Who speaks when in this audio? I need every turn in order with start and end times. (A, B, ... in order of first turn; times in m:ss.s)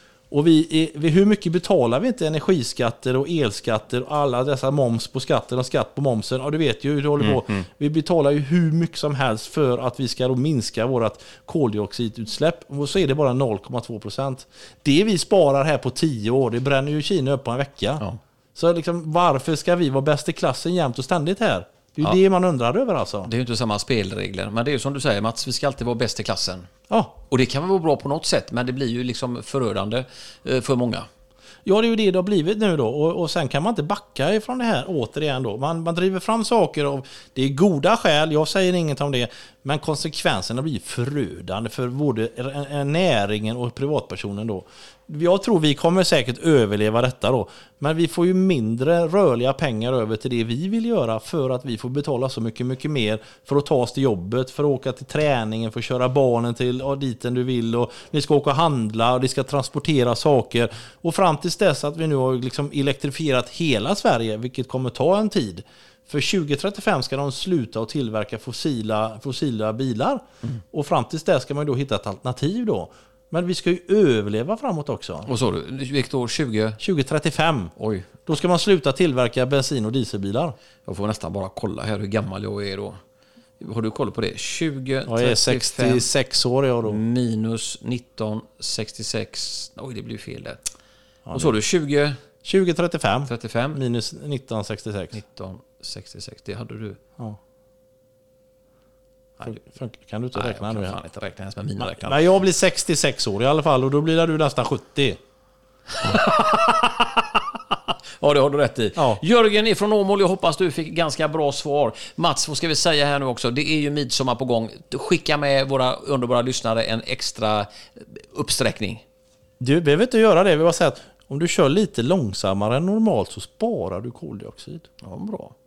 0:00.3-0:18.0 A
0:07.2-0:07.6 B
0:18.6-0:23.3 A
0:23.2-0:31.1 B
0:26.9-0:27.2 A
0:31.7-1:15.3 A
1:15.3-1:16.8 B
1:16.8-1:17.7 A
1:17.8-1:18.1 B
1:18.3-1:20.6 A
1:20.8-1:23.0 B
1:23.6-1:26.1 B
1:25.1-1:27.0 A
1:26.9-1:30.6 B
1:31.3-1:31.6 A
1:31.3-1:32.2 B
1:32.4-1:35.2 A
1:33.3-1:33.8 B
1:35.1-1:37.0 B
1:39.4-1:41.0 A
1:40.4-1:42.2 B
1:41.8-1:45.2 A
1:46.0-1:47.0 B
1:48.2-1:59.0 B
1:59.6-2:04.9 A
2:05.0-2:05.5 B